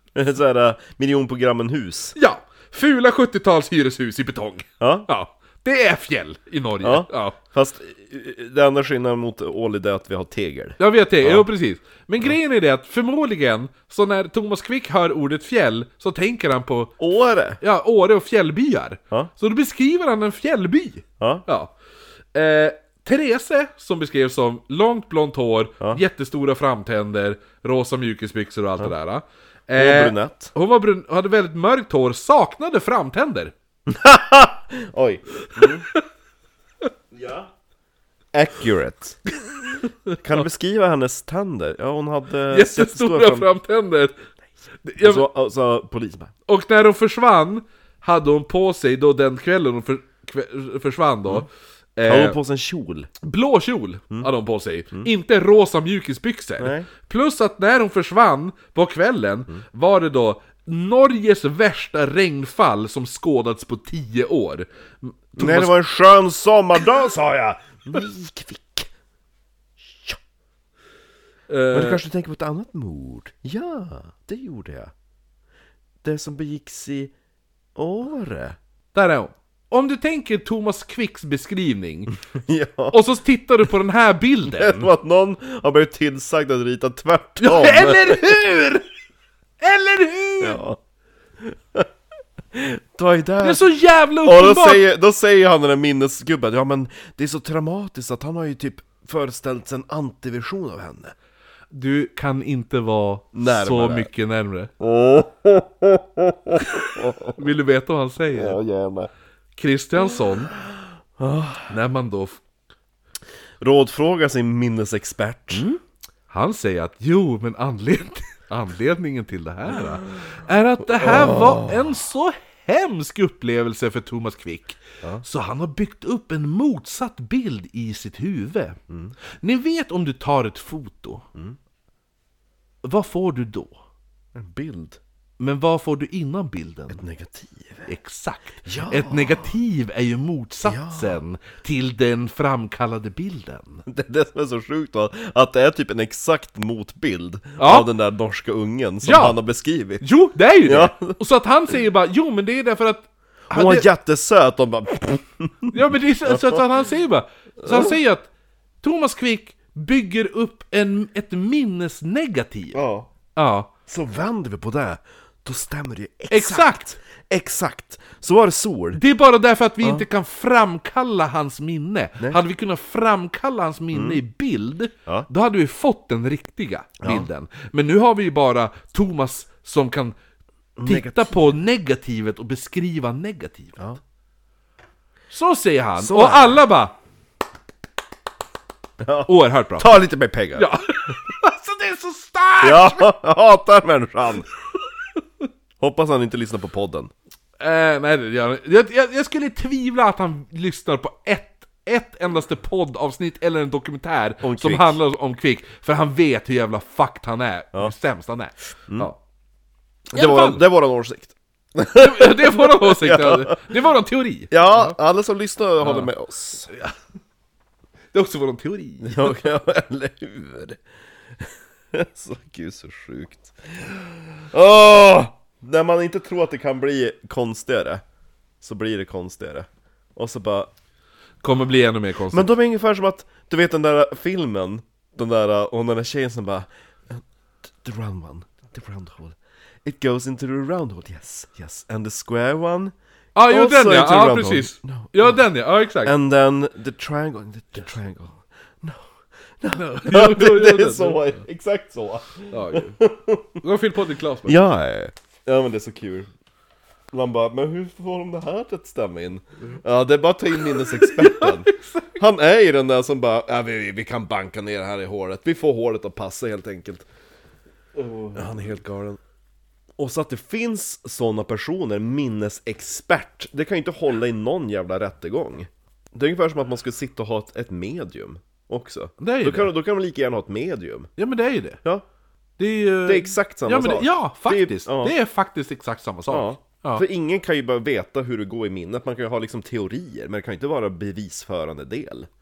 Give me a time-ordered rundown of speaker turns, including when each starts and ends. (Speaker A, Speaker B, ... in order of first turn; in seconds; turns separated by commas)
Speaker A: 0.1-2.1, Speaker B: 2.2-7.4, Speaker A: 4.8-5.1, Speaker A: 6.8-11.5, Speaker B: 10.8-16.9, Speaker A: 17.0-17.6, Speaker B: 17.6-21.7, Speaker A: 21.2-21.4, Speaker B: 22.3-33.5, Speaker A: 29.8-30.5, Speaker A: 33.9-35.9, Speaker B: 35.4-36.0, Speaker A: 37.1-37.5, Speaker A: 38.3-39.2, Speaker B: 39.7-40.2, Speaker A: 40.2-43.5, Speaker B: 42.5-44.3, Speaker B: 44.8-45.3, Speaker A: 45.0-46.3, Speaker B: 46.5-52.4, Speaker A: 52.1-53.1, Speaker B: 53.2-65.7, Speaker A: 56.6-56.9, Speaker A: 65.4-68.9, Speaker A: 69.8-70.2, Speaker B: 71.5-72.0, Speaker A: 71.7-74.9, Speaker A: 76.0-77.1, Speaker A: 77.8-78.6, Speaker B: 78.9-82.2, Speaker A: 82.3-83.0, Speaker B: 82.9-84.9, Speaker A: 84.5-88.4, Speaker B: 87.4-88.8, Speaker B: 89.6-90.6, Speaker A: 90.4-90.8, Speaker A: 91.4-91.9, Speaker A: 92.5-93.7, Speaker B: 93.4-94.8, Speaker A: 94.2-101.2, Speaker B: 101.7-104.7, Speaker A: 103.3-104.1, Speaker A: 104.8-107.4, Speaker B: 106.6-108.6, Speaker A: 108.3-109.1, Speaker B: 109.6-110.5, Speaker A: 111.2-111.7, Speaker B: 111.7-112.4, Speaker A: 113.6-115.7, Speaker B: 115.5-128.8, Speaker A: 121.0-121.9, Speaker A: 128.9-129.2, Speaker B: 129.4-131.3, Speaker B: 132.8-133.8, Speaker A: 134.3-135.0, Speaker B: 135.4-137.0, Speaker A: 136.9-137.9, Speaker B: 137.9-143.8, Speaker A: 138.7-139.5, Speaker A: 140.7-141.2, Speaker A: 143.9-150.0, Speaker B: 147.6-147.9, Speaker B: 149.0-149.4, Speaker B: 150.0-153.9, Speaker A: 150.6-151.2, Speaker A: 153.5-156.7, Speaker B: 155.7-158.3, Speaker A: 157.6-158.0, Speaker B: 158.8-162.8, Speaker A: 162.7-163.1, Speaker B: 163.3-163.7, Speaker A: 163.9-169.0, Speaker B: 166.3-167.0, Speaker B: 168.9-180.2, Speaker A: 173.9-174.2, Speaker A: 177.0-177.3, Speaker A: 180.8-181.4, Speaker B: 180.8-183.8, Speaker B: 185.3-187.0, Speaker A: 186.0-186.6, Speaker A: 189.0-190.7, Speaker B: 189.2-189.9, Speaker B: 190.6-193.1, Speaker A: 192.6-194.5, Speaker A: 195.8-197.1, Speaker B: 197.6-209.2, Speaker A: 204.4-205.0, Speaker A: 210.1-213.6, Speaker B: 210.2-210.6, Speaker B: 212.0-214.9, Speaker A: 214.5-216.7, Speaker B: 215.8-216.1, Speaker B: 216.7-216.9, Speaker B: 218.1-219.3, Speaker A: 219.1-220.8, Speaker A: 221.4-228.0, Speaker A: 228.6-230.7, Speaker B: 231.4-232.5, Speaker A: 232.3-242.9, Speaker B: 243.3-246.1, Speaker A: 243.5-245.4, Speaker A: 246.0-249.1, Speaker A: 249.6-253.6, Speaker B: 249.7-251.4, Speaker B: 252.5-253.0, Speaker B: 253.6-254.7, Speaker A: 254.5-256.3, Speaker A: 257.1-267.1, Speaker B: 260.6-262.2, Speaker B: 268.0-268.5, Speaker A: 268.4-269.2, Speaker A: 270.0-281.1, Speaker B: 279.2-279.7, Speaker B: 281.2-281.8, Speaker B: 282.6-287.1, Speaker A: 283.1-285.1, Speaker A: 286.3-292.3